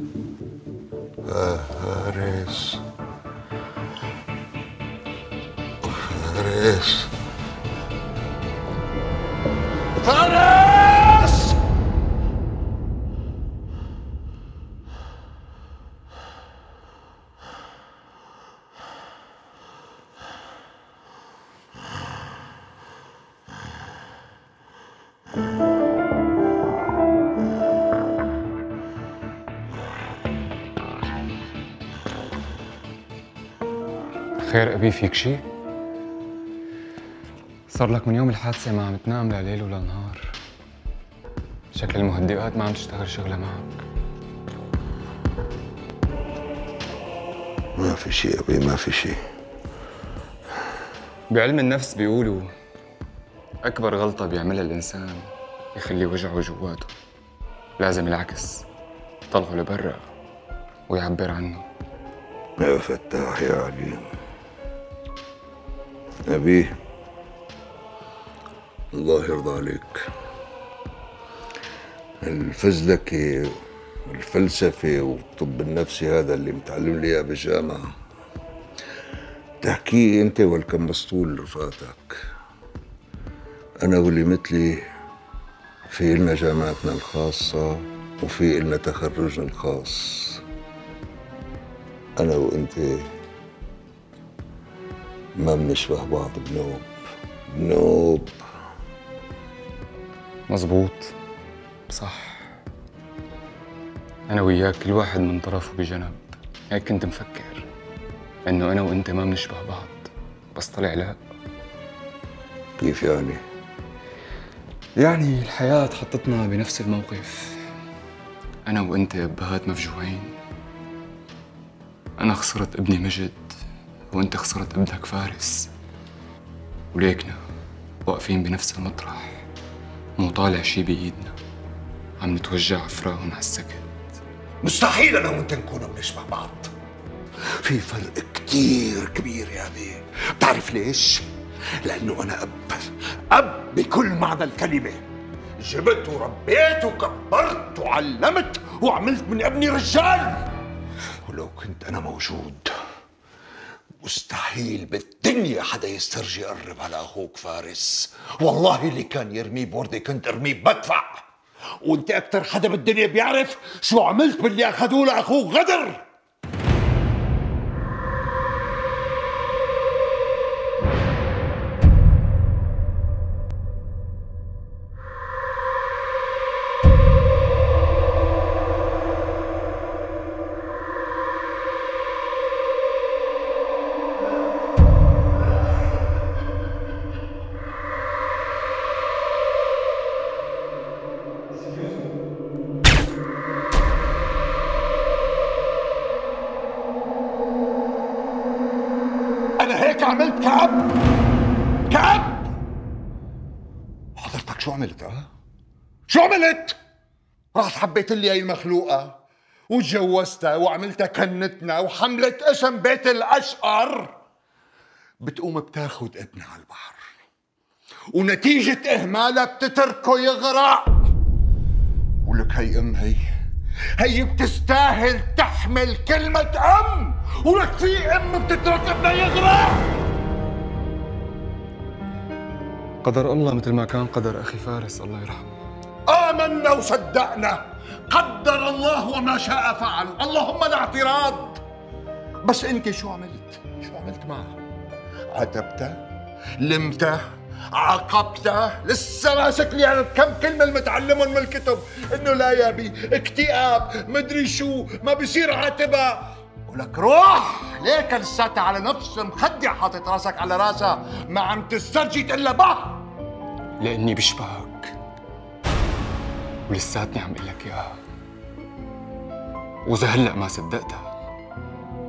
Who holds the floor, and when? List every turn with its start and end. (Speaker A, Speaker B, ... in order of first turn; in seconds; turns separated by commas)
Speaker A: 1.2-2.8, Speaker A: 5.8-7.1, Speaker A: 10.0-11.6, Speaker B: 34.4-35.4, Speaker B: 37.7-40.4, Speaker B: 41.7-43.8, Speaker A: 47.8-49.2, Speaker B: 51.3-52.5, Speaker B: 53.6-56.9, Speaker B: 57.8-58.7, Speaker B: 59.3-60.1, Speaker B: 60.9-61.7, Speaker A: 62.6-64.0, Speaker A: 66.3-66.7, Speaker A: 68.9-70.1, Speaker A: 72.2-77.8, Speaker A: 79.6-82.2, Speaker A: 83.8-84.8, Speaker A: 85.9-90.4, Speaker A: 92.2-93.1, Speaker A: 95.4-96.9, Speaker A: 97.5-98.3, Speaker B: 100.5-101.1, Speaker B: 101.9-102.5, Speaker B: 104.3-107.7, Speaker B: 108.5-111.2, Speaker A: 112.8-113.4, Speaker B: 115.0-117.6, Speaker B: 118.7-120.3, Speaker B: 122.2-123.5, Speaker B: 124.1-125.7, Speaker B: 126.9-127.4, Speaker B: 128.1-129.4, Speaker B: 130.2-131.4, Speaker B: 132.2-133.9, Speaker A: 134.6-136.7, Speaker A: 137.6-141.3, Speaker A: 141.8-145.0, Speaker A: 145.6-150.5, Speaker A: 151.2-152.7, Speaker A: 154.0-161.2, Speaker A: 161.8-166.0, Speaker A: 199.6-200.9, Speaker A: 201.9-202.5, Speaker A: 204.2-205.3, Speaker A: 206.1-206.8, Speaker A: 207.5-214.1, Speaker A: 215.2-217.0, Speaker A: 218.1-221.1, Speaker A: 222.2-223.2, Speaker A: 224.0-230.0, Speaker B: 233.0-235.6, Speaker A: 236.1-241.6, Speaker A: 242.4-244.6, Speaker A: 245.3-246.0, Speaker A: 246.6-263.1, Speaker B: 263.8-265.0, Speaker B: 266.7-268.0, Speaker B: 269.8-271.1